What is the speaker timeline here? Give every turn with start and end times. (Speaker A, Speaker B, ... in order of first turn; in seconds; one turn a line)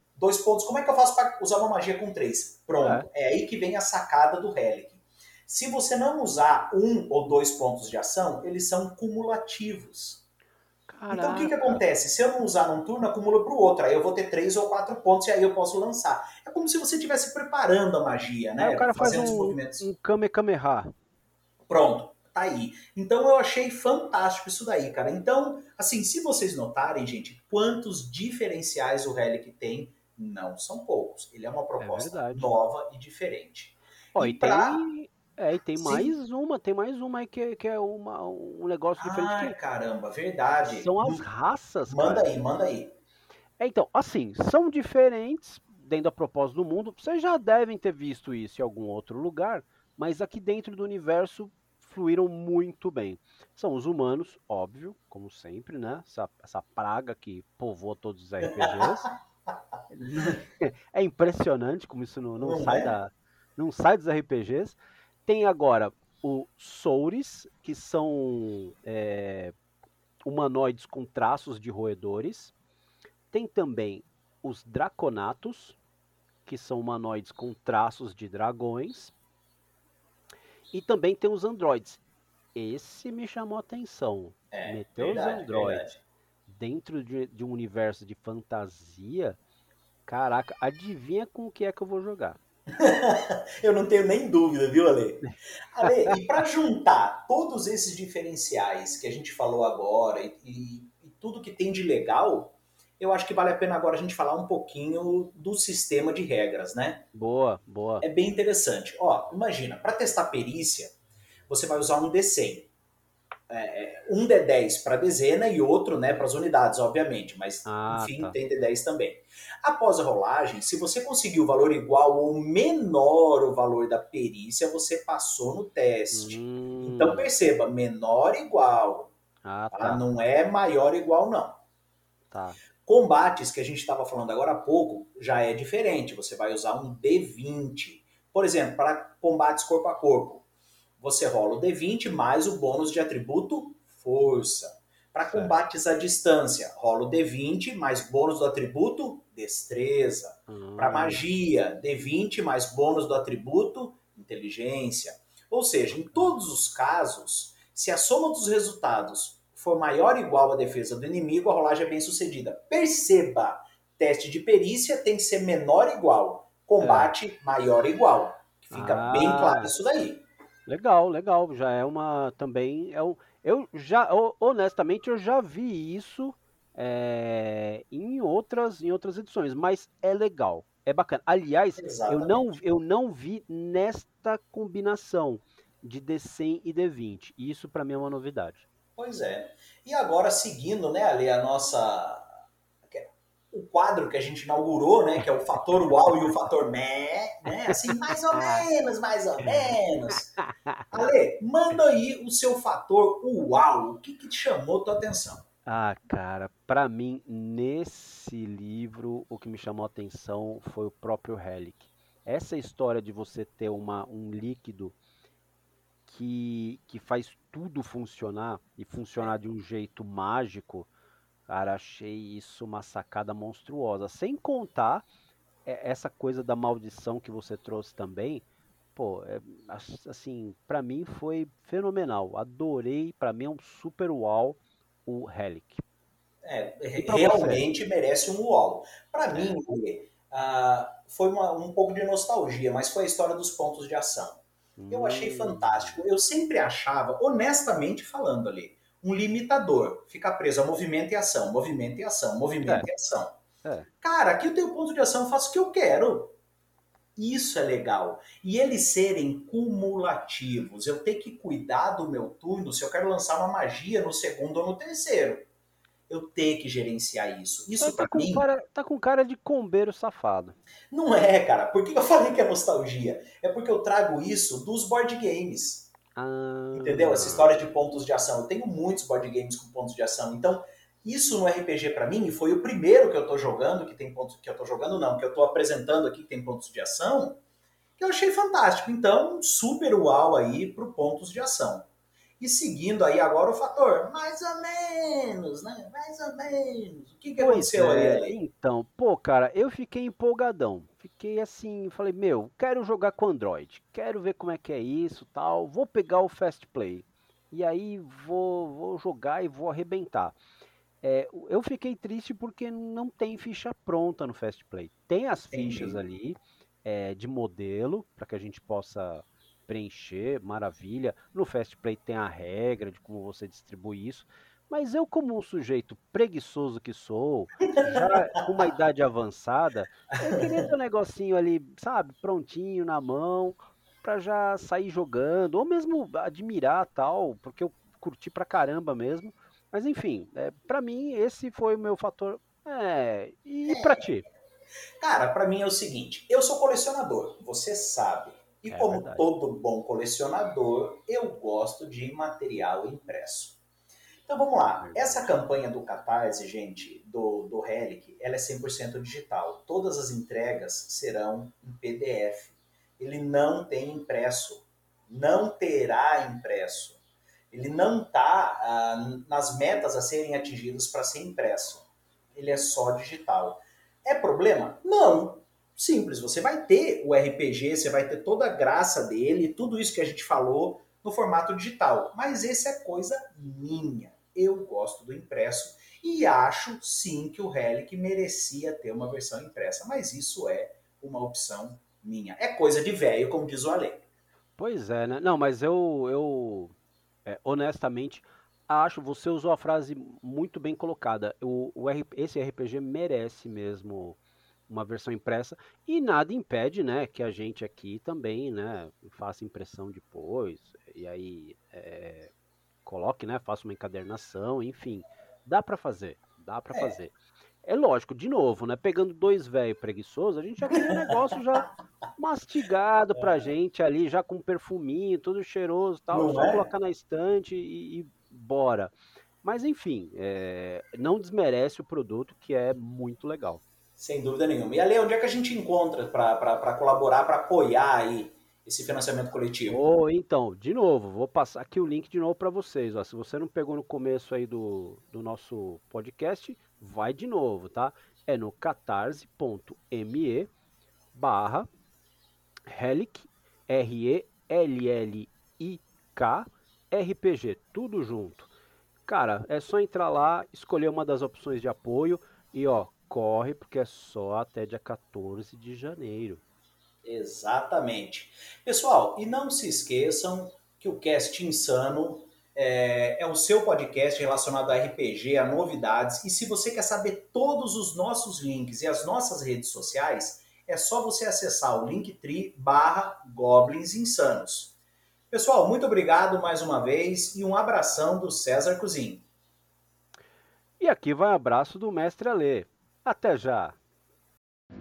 Speaker A: 0.2-10.2
Speaker B: 2.8-3.1
Speaker B: 10.9-11.8
Speaker A: 11.1-19.8
Speaker B: 18.6-20.9
Speaker A: 21.7-34.8
Speaker B: 31.8-32.5
Speaker B: 34.1-39.6
Speaker A: 35.8-36.1
Speaker A: 39.0-41.2
Speaker B: 40.7-42.3
Speaker A: 41.9-42.9
Speaker B: 43.6-59.0
Speaker A: 58.6-58.9
Speaker B: 59.9-69.5
Speaker A: 62.4-63.0
Speaker B: 70.2-72.5
Speaker B: 73.3-75.8
Speaker B: 76.5-79.1
Speaker B: 80.7-82.0
Speaker B: 82.5-85.9
Speaker A: 84.5-86.0
Speaker B: 86.5-89.4
Speaker B: 90.0-92.4
Speaker A: 92.8-107.1
Speaker B: 95.8-96.1
Speaker B: 107.1-108.0
Speaker A: 108.0-110.9
Speaker A: 111.5-112.7
Speaker A: 113.5-129.1
Speaker B: 117.6-118.4
Speaker B: 126.1-127.3
Speaker B: 129.4-130.0
Speaker A: 129.7-131.6
Speaker B: 132.3-132.6
Speaker A: 132.8-140.4
Speaker A: 141.0-170.2
Speaker B: 145.2-145.6
Speaker B: 150.5-151.2
Speaker B: 155.9-156.3
Speaker B: 166.8-167.1
Speaker B: 168.7-169.7
Speaker B: 170.7-188.6
Speaker A: 181.8-182.6
Speaker A: 188.9-192.3
Speaker A: 192.9-200.3
Speaker B: 197.7-198.7
Speaker B: 199.4-201.1
Speaker A: 200.9-205.4
Speaker B: 205.7-214.9
Speaker B: 216.1-220.9
Speaker B: 221.5-225.0
Speaker B: 225.6-235.8
Speaker A: 236.4-253.4
Speaker B: 236.9-237.7
Speaker B: 239.3-239.6
Speaker B: 244.8-246.0
Speaker B: 253.6-253.9
Speaker A: 254.0-256.4
Speaker A: 257.2-265.5
Speaker A: 266.1-268.4
Speaker B: 267.8-270.6
Speaker A: 270.9-275.9
Speaker B: 276.1-277.6
Speaker A: 276.7-287.4
Speaker A: 288.0-291.9
Speaker A: 292.4-298.4
Speaker B: 297.4-310.4
Speaker B: 311.0-344.2
Speaker A: 315.5-316.0
Speaker A: 327.8-328.2
Speaker A: 330.2-330.6
Speaker A: 343.7-344.1
Speaker A: 345.0-353.6
Speaker B: 348.7-349.3
Speaker A: 354.3-367.0
Speaker B: 354.8-355.4
Speaker A: 367.5-394.0
Speaker B: 394.6-396.7
Speaker B: 397.2-412.3
Speaker B: 412.8-433.6
Speaker A: 420.6-421.1
Speaker A: 423.2-423.5
Speaker A: 426.1-426.6
Speaker A: 434.0-439.8
Speaker B: 439.6-450.5
Speaker B: 451.1-451.7
Speaker B: 452.7-458.5
Speaker B: 459.1-466.4
Speaker A: 467.0-484.7
Speaker A: 485.3-489.2
Speaker B: 490.8-493.8